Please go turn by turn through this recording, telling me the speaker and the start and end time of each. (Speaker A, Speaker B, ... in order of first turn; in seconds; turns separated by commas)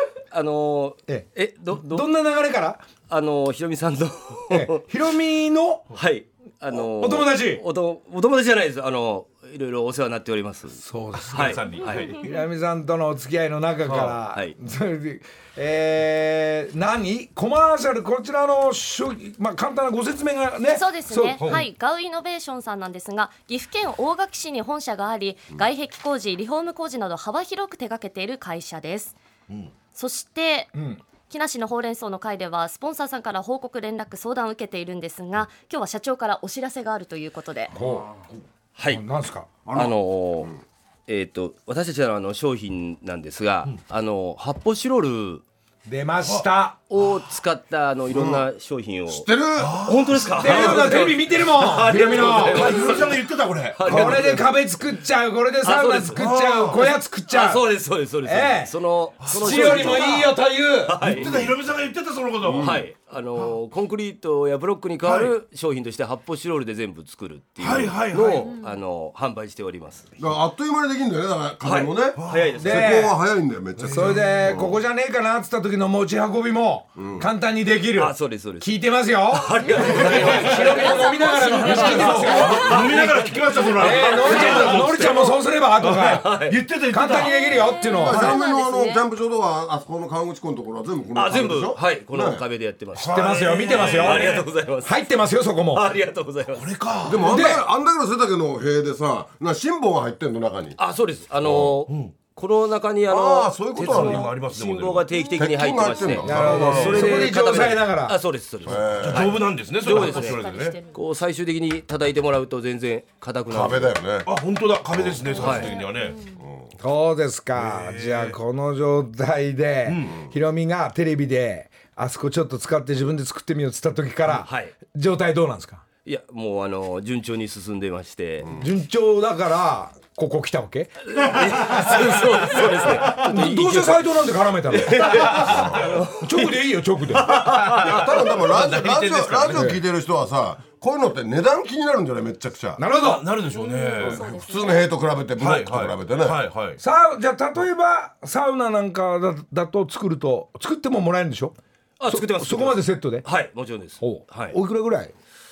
Speaker A: 0.3-2.1, Speaker B: 1.1-2.8, Speaker A: 3.1-4.8, Speaker B: 4.5-5.8, Speaker A: 5.9-10.8, Speaker B: 6.7-7.6, Speaker B: 10.8-11.6, Speaker A: 11.3-12.1, Speaker C: 11.3-12.4, Speaker B: 12.2-21.4, Speaker C: 13.8-14.2, Speaker A: 14.3-14.5, Speaker D: 20.7-29.2, Speaker C: 21.4-21.6, Speaker D: 29.9-30.7, Speaker B: 30.7-31.0, Speaker D: 31.3-37.7, Speaker B: 37.8-38.1, Speaker A: 38.8-39.0, Speaker B: 38.9-39.5, Speaker E: 39.6-39.9, Speaker A: 39.7-40.5, Speaker A: 41.1-45.4, Speaker B: 45.9-46.8, Speaker A: 46.9-49.3, Speaker E: 48.1-48.5, Speaker E: 49.1-50.0, Speaker C: 49.6-51.1, Speaker A: 49.8-53.1, Speaker B: 50.4-52.9, Speaker C: 51.9-54.3, Speaker A: 53.7-54.5, Speaker B: 53.8-57.7, Speaker A: 55.6-60.3, Speaker C: 56.1-56.8, Speaker B: 58.2-61.0, Speaker C: 59.2-60.2, Speaker A: 60.9-61.5, Speaker C: 61.0-62.9, Speaker E: 61.0-61.5, Speaker E: 62.4-62.8, Speaker A: 62.6-70.1, Speaker C: 65.0-65.4, Speaker C: 67.6-68.6, Speaker E: 70.2-74.8, Speaker A: 71.6-73.0, Speaker C: 72.2-72.5, Speaker B: 72.6-73.2, Speaker B: 73.8-82.7, Speaker C: 73.8-74.4, Speaker E: 77.0-77.3, Speaker A: 77.9-78.7, Speaker A: 79.3-85.3, Speaker C: 79.9-80.7, Speaker D: 79.9-83.1, Speaker C: 81.7-87.6, Speaker B: 83.8-88.4, Speaker A: 86.1-86.7, Speaker D: 87.2-89.0, Speaker E: 88.0-92.4, Speaker A: 91.1-95.0, Speaker C: 92.9-94.5, Speaker B: 93.0-95.9, Speaker A: 95.7-96.7, Speaker C: 96.5-97.4, Speaker E: 97.0-100.8, Speaker B: 97.2-97.6, Speaker A: 100.8-113.9, Speaker E: 101.4-101.7, Speaker C: 101.5-102.2, Speaker E: 103.1-104.3, Speaker C: 103.8-105.2, Speaker D: 105.1-105.5, Speaker E: 105.3-107.3, Speaker B: 106.2-108.2, Speaker C: 106.5-107.0, Speaker E: 108.6-109.4, Speaker C: 108.8-110.8, Speaker D: 109.8-111.0, Speaker E: 113.5-114.3, Speaker C: 114.2-116.2, Speaker E: 114.9-115.7, Speaker D: 115.2-116.4, Speaker A: 115.4-115.7, Speaker E: 116.4-116.7, Speaker B: 116.8-125.8, Speaker C: 117.5-118.4, Speaker C: 119.8-120.3, Speaker A: 124.3-124.7, Speaker A: 126.0-128.6, Speaker B: 128.6-130.9, Speaker A: 131.1-134.1, Speaker B: 131.6-135.7, Speaker A: 134.7-136.6, Speaker C: 135.4-135.7, Speaker E: 135.4-135.9, Speaker B: 136.2-137.4, Speaker A: 137.2-138.0, Speaker C: 137.3-139.8, Speaker E: 137.8-142.8, Speaker B: 139.5-139.8, Speaker B: 142.8-143.2, Speaker C: 142.9-144.3, Speaker D: 143.5-144.9, Speaker E: 144.0-146.4, Speaker C: 145.4-146.8, Speaker B: 146.8-151.6, Speaker A: 152.0-154.6, Speaker B: 152.1-153.2, Speaker B: 154.0-155.1